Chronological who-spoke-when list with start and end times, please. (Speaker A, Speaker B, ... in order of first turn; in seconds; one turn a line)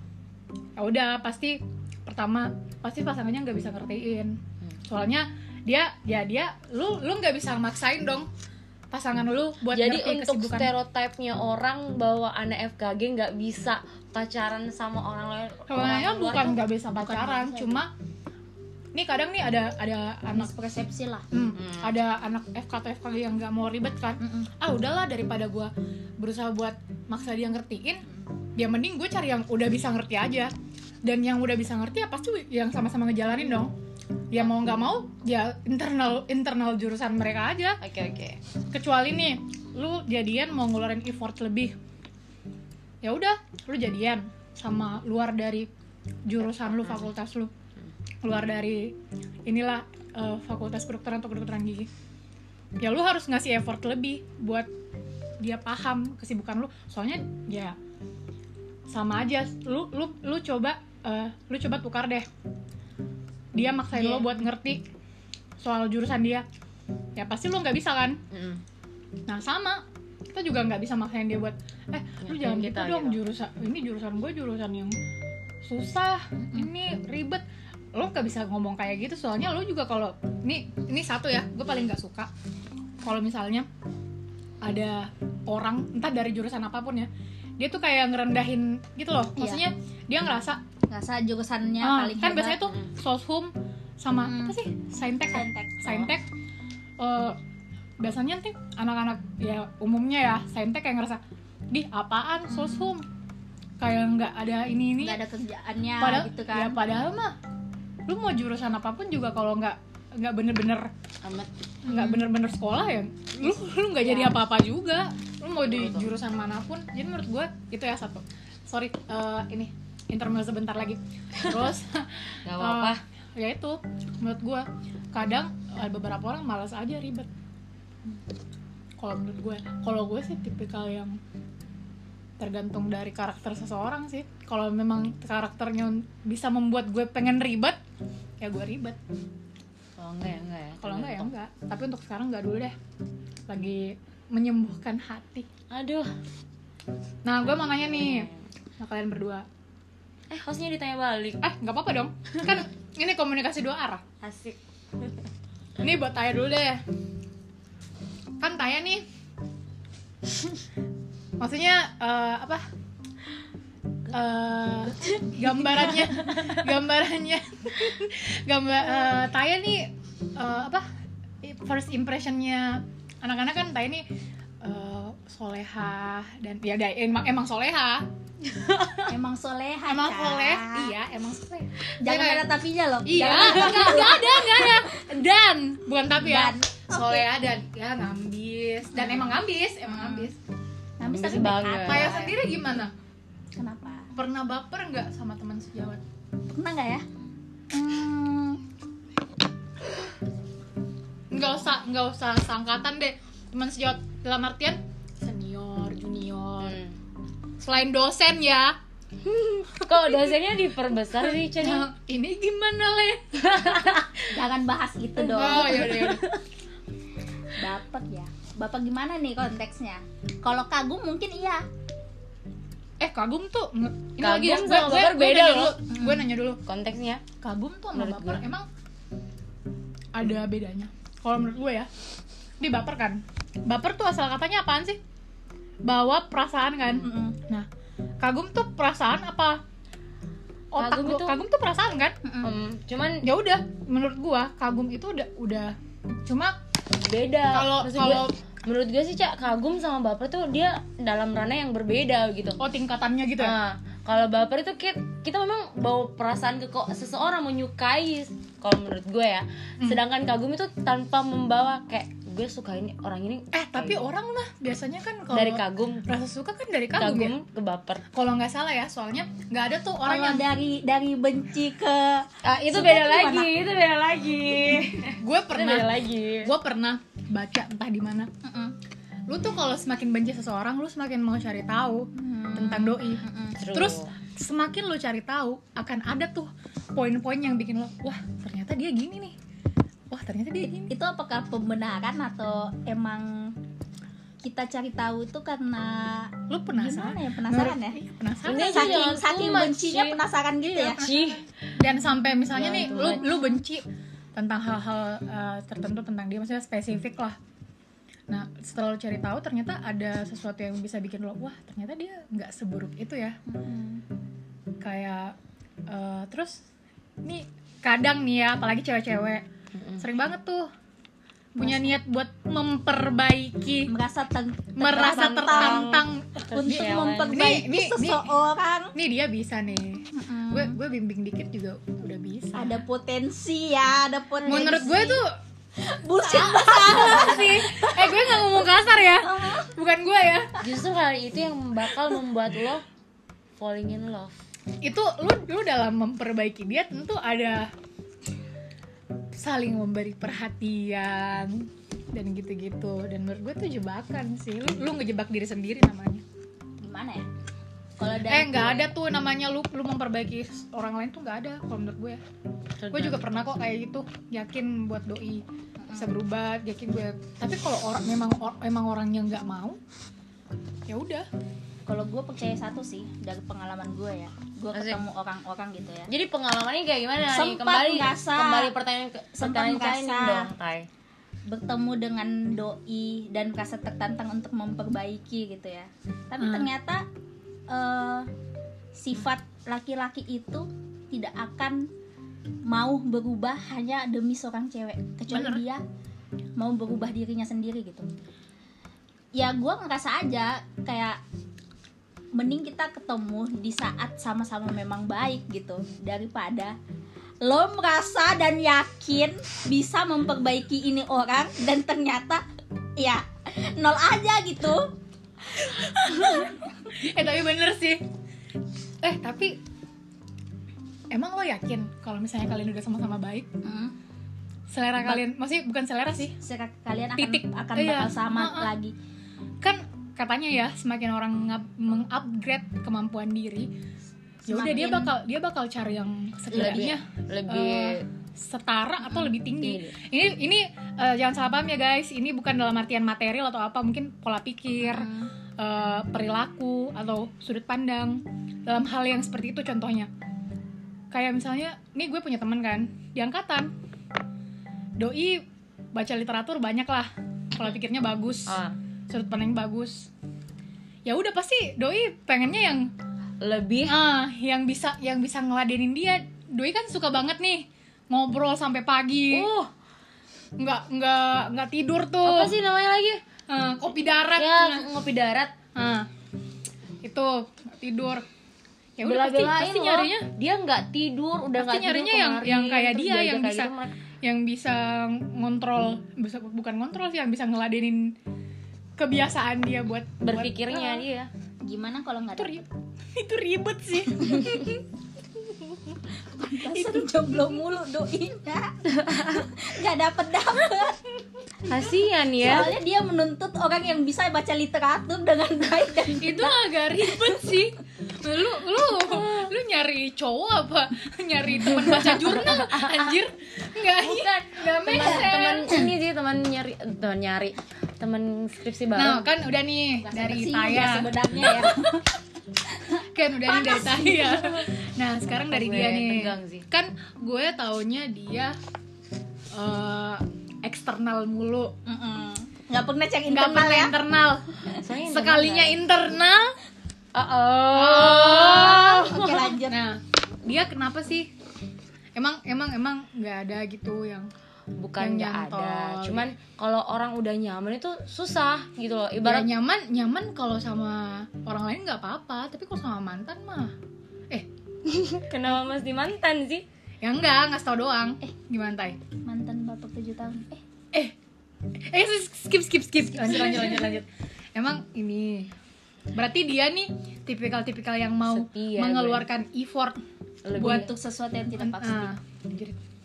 Speaker A: 0.8-8.3
Speaker A: 8.9-10.7
Speaker B: 9.7-16.7
Speaker A: 15.7-17.9
Speaker C: 17.0-17.8
Speaker A: 18.9-20.5
Speaker C: 20.3-21.2
Speaker A: 21.3-28.0
Speaker B: 21.5-21.9
Speaker C: 24.2-24.5
Speaker A: 28.6-33.8
Speaker A: 34.3-37.8
Speaker B: 37.8-38.4
Speaker A: 38.7-41.8
Speaker A: 43.0-45.7
Speaker A: 46.2-47.5
Speaker B: 46.6-47.1
Speaker A: 48.2-51.9
Speaker A: 52.8-54.7
Speaker A: 55.4-57.8
Speaker A: 58.9-62.3
Speaker A: 63.5-64.9
Speaker C: 63.9-64.4
Speaker A: 65.6-66.5
Speaker A: 67.2-68.2
Speaker B: 68.3-68.6
Speaker A: 69.3-75.0
Speaker B: 72.2-73.2
Speaker A: 75.6-82.3
Speaker C: 76.4-76.6
Speaker A: 83.0-83.7
Speaker A: 84.6-90.6
Speaker C: 89.4-89.6
Speaker C: 90.9-92.6
Speaker A: 91.8-96.2
Speaker C: 94.2-94.6
Speaker C: 95.3-96.0
Speaker A: 97.0-97.4
Speaker A: 98.0-103.0
Speaker C: 102.5-102.9
Speaker A: 103.8-105.2
Speaker C: 105.0-106.8
Speaker A: 106.0-107.3
Speaker A: 108.1-110.9
Speaker B: 111.2-111.5
Speaker A: 111.8-127.3
Speaker C: 111.9-112.2
Speaker C: 114.0-114.4
Speaker B: 115.6-116.1
Speaker B: 122.5-123.0
Speaker A: 129.0-131.2
Speaker A: 132.4-137.8
Speaker A: 138.4-139.0
Speaker B: 140.0-141.3
Speaker A: 140.8-142.7
Speaker A: 143.5-145.5
Speaker B: 145.7-146.1
Speaker A: 147.2-148.3
Speaker B: 147.4-148.4
Speaker A: 148.8-149.4
Speaker B: 150.3-151.4
Speaker A: 151.4-154.0
Speaker B: 154.2-155.1
Speaker A: 155.8-156.8
Speaker A: 158.4-159.0
Speaker A: 161.4-162.6
Speaker A: 164.1-170.8
Speaker B: 165.0-166.5
Speaker A: 171.4-174.1
Speaker A: 174.6-178.1
Speaker C: 179.1-180.9
Speaker A: 179.8-182.5
Speaker C: 182.0-185.0
Speaker A: 183.0-190.4
Speaker C: 186.2-187.3
Speaker C: 188.9-189.3
Speaker C: 189.8-190.3
Speaker C: 191.0-192.3
Speaker B: 191.0-192.2
Speaker A: 191.8-192.9
Speaker C: 193.5-194.1
Speaker A: 194.2-196.0
Speaker C: 196.5-197.0
Speaker C: 197.7-198.6
Speaker A: 201.3-206.8
Speaker B: 206.6-206.9
Speaker A: 207.6-208.8
Speaker B: 209.3-211.9
Speaker A: 209.8-210.1
Speaker A: 211.2-214.0
Speaker B: 213.4-214.2
Speaker C: 214.3-216.1
Speaker A: 215.2-216.2
Speaker B: 215.3-216.4
Speaker C: 217.6-221.6
Speaker A: 223.0-226.6
Speaker B: 224.2-225.8
Speaker B: 226.7-227.2
Speaker A: 227.4-228.7
Speaker B: 227.9-228.4
Speaker A: 230.1-231.9
Speaker A: 232.6-235.0
Speaker A: 235.8-237.7
Speaker C: 236.9-237.4
Speaker A: 238.2-239.6
Speaker A: 240.7-242.2
Speaker B: 240.8-241.4
Speaker C: 242.2-242.5
Speaker B: 242.4-243.2
Speaker A: 243.2-246.6
Speaker B: 247.0-252.6
Speaker A: 247.5-248.3
Speaker A: 252.6-253.6
Speaker B: 253.4-264.0
Speaker A: 263.5-267.4
Speaker B: 265.3-266.0
Speaker B: 266.9-268.0
Speaker A: 268.1-270.4
Speaker C: 270.0-273.5
Speaker B: 272.4-276.5
Speaker A: 275.1-278.3
Speaker C: 278.4-278.7
Speaker A: 279.3-283.2
Speaker C: 282.1-283.6
Speaker B: 283.6-284.1
Speaker A: 283.7-289.4
Speaker A: 290.1-290.9
Speaker C: 290.8-293.6
Speaker C: 294.4-301.1
Speaker A: 296.5-299.1
Speaker B: 298.4-300.2
Speaker B: 300.7-301.4
Speaker A: 301.0-307.4
Speaker B: 302.5-303.3
Speaker A: 308.3-313.4
Speaker C: 313.4-314.0
Speaker A: 314.8-315.4
Speaker A: 315.9-316.6
Speaker A: 317.2-319.4
Speaker B: 319.7-320.0
Speaker A: 320.0-320.7
Speaker A: 321.5-323.9
Speaker C: 321.6-321.9
Speaker C: 323.9-325.8
Speaker A: 324.8-328.3
Speaker B: 324.8-327.4
Speaker C: 326.4-328.9
Speaker A: 328.9-332.8
Speaker C: 330.1-330.8
Speaker C: 332.5-335.2
Speaker A: 334.4-335.3
Speaker C: 335.8-339.7
Speaker A: 336.2-340.6
Speaker B: 340.6-342.8
Speaker B: 343.6-344.3
Speaker A: 344.8-347.7
Speaker A: 349.3-356.2
Speaker C: 356.8-357.3
Speaker C: 358.0-358.9
Speaker A: 358.3-362.2
Speaker B: 362.8-363.5
Speaker A: 362.9-369.8
Speaker C: 365.8-366.1
Speaker A: 370.9-371.3
Speaker C: 371.9-376.1
Speaker B: 374.7-375.0
Speaker B: 376.1-380.9
Speaker C: 377.3-378.7
Speaker C: 379.4-380.5
Speaker C: 381.5-387.1
Speaker A: 386.4-386.7
Speaker C: 387.7-388.3
Speaker C: 388.9-391.9
Speaker C: 392.6-395.8
Speaker A: 395.3-395.6
Speaker C: 396.6-398.1
Speaker C: 399.3-401.2
Speaker C: 402.3-406.8
Speaker C: 407.4-412.4
Speaker C: 413.0-414.9
Speaker A: 415.7-418.0
Speaker C: 416.1-416.5
Speaker A: 419.0-419.6
Speaker A: 421.1-423.5
Speaker C: 423.6-423.9
Speaker A: 424.7-426.3
Speaker C: 426.3-428.9
Speaker A: 427.2-428.7
Speaker A: 429.6-433.7
Speaker C: 434.4-435.1
Speaker A: 434.4-450.1
Speaker C: 436.5-436.9
Speaker B: 436.5-438.0
Speaker B: 439.6-439.9
Speaker C: 444.8-445.3
Speaker A: 451.1-453.7
Speaker A: 455.0-460.1
Speaker B: 458.5-458.8
Speaker A: 461.0-462.9
Speaker B: 463.4-463.9
Speaker A: 463.9-469.5
Speaker B: 469.3-469.7
Speaker A: 470.6-472.5
Speaker B: 472.2-473.2
Speaker A: 473.5-474.9
Speaker B: 474.4-475.5
Speaker A: 475.7-476.1
Speaker A: 477.0-478.2
Speaker A: 479.0-480.2
Speaker B: 479.0-483.9
Speaker A: 481.6-488.1
Speaker A: 489.0-491.1
Speaker B: 490.2-491.3
Speaker C: 491.6-492.6
Speaker A: 492.4-494.9
Speaker C: 496.4-501.0
Speaker A: 496.7-497.6
Speaker B: 498.9-499.5
Speaker B: 501.6-502.7
Speaker C: 502.4-507.3
Speaker A: 506.2-515.9
Speaker B: 511.6-513.1
Speaker B: 514.0-519.3
Speaker A: 519.0-522.0
Speaker C: 520.1-522.0
Speaker A: 523.0-528.6
Speaker C: 523.5-524.5
Speaker B: 525.4-526.6
Speaker A: 529.5-531.7
Speaker C: 531.9-533.9
Speaker A: 533.3-534.5
Speaker B: 534.8-535.8
Speaker A: 535.0-536.5
Speaker B: 537.1-539.5
Speaker A: 537.7-541.3
Speaker C: 538.0-539.8
Speaker A: 542.1-544.3
Speaker B: 544.8-549.5
Speaker A: 545.0-546.3
Speaker A: 549.2-553.7
Speaker B: 554.9-556.6
Speaker A: 557.0-559.0
Speaker C: 559.2-560.6
Speaker A: 561.8-565.5
Speaker A: 566.1-570.0
Speaker B: 568.3-569.2
Speaker B: 570.4-570.9
Speaker A: 570.5-570.9
Speaker C: 570.6-572.1
Speaker A: 571.6-572.8